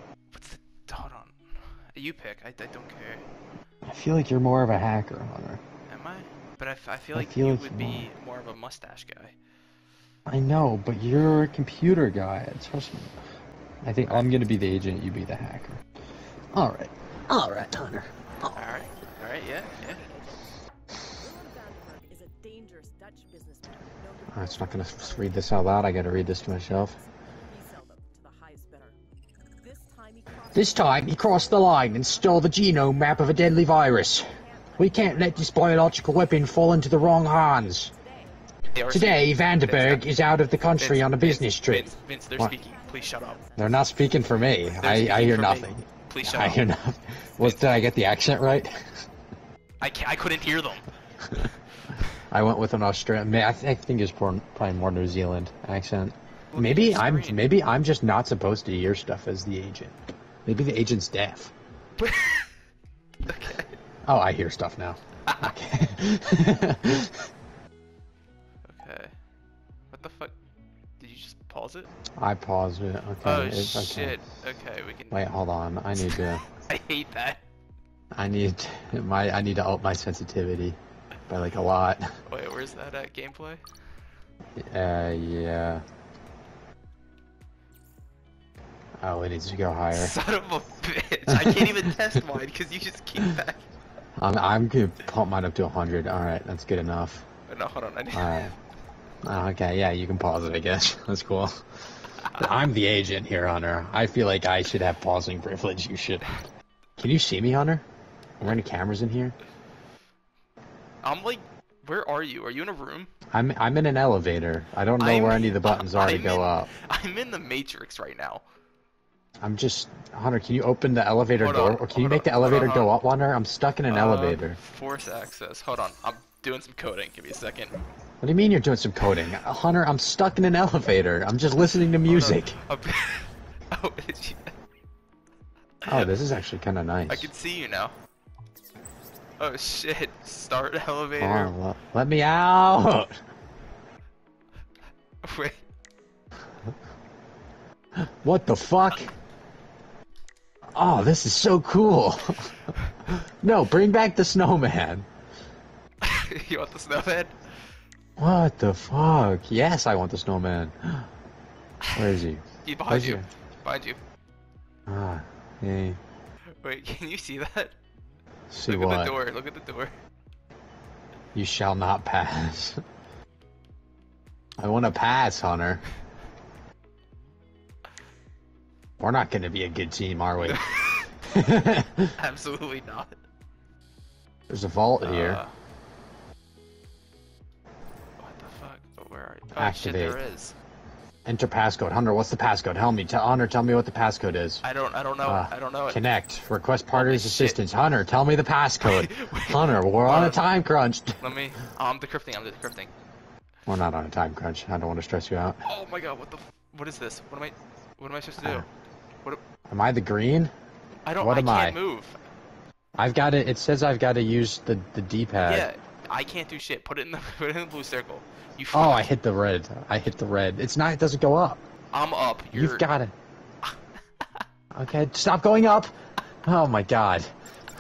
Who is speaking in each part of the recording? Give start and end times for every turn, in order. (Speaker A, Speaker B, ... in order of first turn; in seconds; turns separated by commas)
Speaker A: 0.3-1.4, Speaker A: 1.9-3.2, Speaker B: 3.9-5.6, Speaker A: 5.9-9.3, Speaker B: 7.1-8.1, Speaker B: 10.3-13.2, Speaker B: 13.8-15.8, Speaker B: 16.5-18.6, Speaker A: 18.6-20.0, Speaker C: 21.2-24.3, Speaker B: 24.3-27.0, Speaker C: 27.5-28.9, Speaker C: 29.7-30.6, Speaker B: 30.5-34.2, Speaker C: 34.4-34.8, Speaker B: 34.8-37.9, Speaker C: 38.0-38.2, Speaker A: 38.7-40.0, Speaker B: 38.9-42.5, Speaker A: 40.8-43.4, Speaker B: 43.5-48.7, Speaker A: 44.8-46.6, Speaker A: 47.4-47.9, Speaker A: 49.8-50.9, Speaker B: 52.3-61.5, Speaker A: 56.5-57.5, Speaker A: 62.0-62.5, Speaker A: 63.2-63.7, Speaker B: 64.0-67.3, Speaker A: 65.2-65.5, Speaker A: 68.7-69.1, Speaker A: 69.9-70.3, Speaker A: 71.0-71.9, Speaker B: 72.2-74.2, Speaker A: 73.2-75.2, Speaker B: 75.1-76.4, Speaker A: 76.0-77.4, Speaker B: 78.1-80.8, Speaker B: 81.3-82.0, Speaker A: 82.3-83.6, Speaker B: 84.6-85.8, Speaker B: 89.0-90.1, Speaker A: 89.9-93.7, Speaker B: 91.3-91.9, Speaker B: 94.2-97.2, Speaker A: 97.5-98.4, Speaker B: 98.1-98.5, Speaker B: 99.2-101.5, Speaker B: 102.2-106.2, Speaker A: 102.2-102.5, Speaker B: 107.0-107.8, Speaker B: 108.4-109.3, Speaker A: 111.0-113.1, Speaker B: 113.3-116.7, Speaker A: 115.0-118.4, Speaker B: 119.4-124.6, Speaker A: 121.4-122.9, Speaker A: 123.9-127.7, Speaker B: 128.2-132.6, Speaker A: 132.0-134.5, Speaker B: 135.9-137.3, Speaker A: 137.1-137.9, Speaker A: 139.4-141.5, Speaker B: 141.2-143.1, Speaker A: 145.2-145.6, Speaker B: 148.0-149.1, Speaker B: 150.7-152.5, Speaker B: 153.1-155.1, Speaker A: 156.0-157.3, Speaker B: 158.2-161.1, Speaker B: 161.9-163.2, Speaker A: 162.6-164.0, Speaker B: 164.9-166.0, Speaker A: 166.6-167.8, Speaker B: 168.5-169.2, Speaker A: 168.7-169.9, Speaker B: 171.3-172.8, Speaker B: 174.6-175.8, Speaker B: 179.0-180.6, Speaker A: 180.4-181.6, Speaker B: 181.3-182.1, Speaker A: 182.2-183.1, Speaker B: 184.5-185.4, Speaker A: 185.0-185.5, Speaker A: 188.2-190.5, Speaker B: 189.6-190.2, Speaker B: 191.2-194.6, Speaker A: 194.6-196.0, Speaker B: 195.2-201.2, Speaker A: 196.9-197.6, Speaker A: 198.8-200.4, Speaker A: 201.2-202.9, Speaker B: 203.7-205.6, Speaker A: 205.6-208.7, Speaker B: 208.4-208.6, Speaker B: 209.7-210.5, Speaker A: 211.1-212.2, Speaker B: 211.2-211.8, Speaker B: 213.0-215.7, Speaker A: 215.4-219.1, Speaker B: 218.7-221.6, Speaker A: 221.9-222.9, Speaker B: 222.5-223.1, Speaker B: 224.7-225.9, Speaker B: 226.4-227.3